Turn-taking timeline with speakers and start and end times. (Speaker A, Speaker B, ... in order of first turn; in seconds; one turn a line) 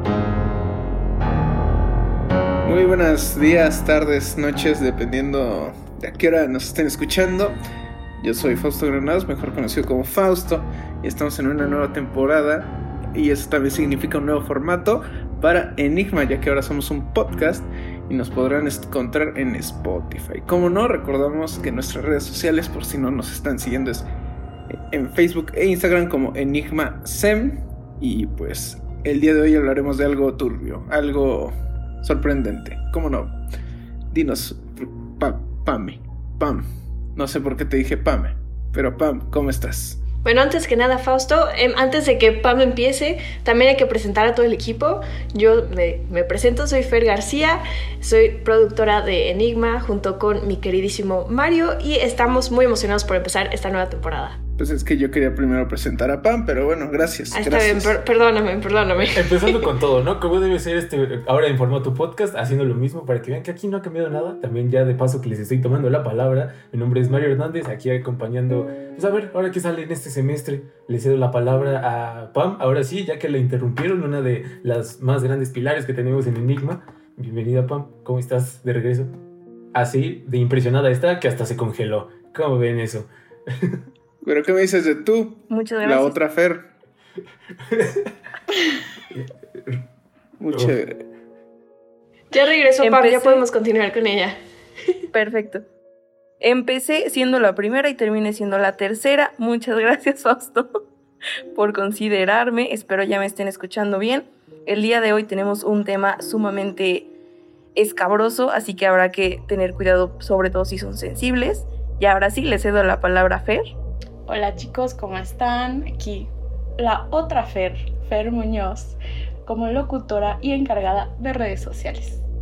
Speaker A: 2.6-7.6
Speaker A: 8.2-24.1
Speaker A: 24.7-33.3
Speaker A: 34.1-40.0
Speaker B: 40.2-54.4
Speaker A: 54.6-58.0
Speaker B: 57.3-59.7
Speaker C: 59.1-79.1
Speaker C: 79.7-83.8
Speaker A: 84.2-86.7
Speaker D: 85.5-86.2
Speaker C: 87.7-88.1
Speaker C: 89.1-89.8
Speaker A: 90.4-91.0
Speaker B: 92.3-94.4
Speaker D: 92.8-93.5
Speaker D: 95.1-95.6
Speaker D: 96.4-100.7
Speaker D: 101.5-107.1
Speaker D: 107.8-113.7
Speaker E: 114.3-122.2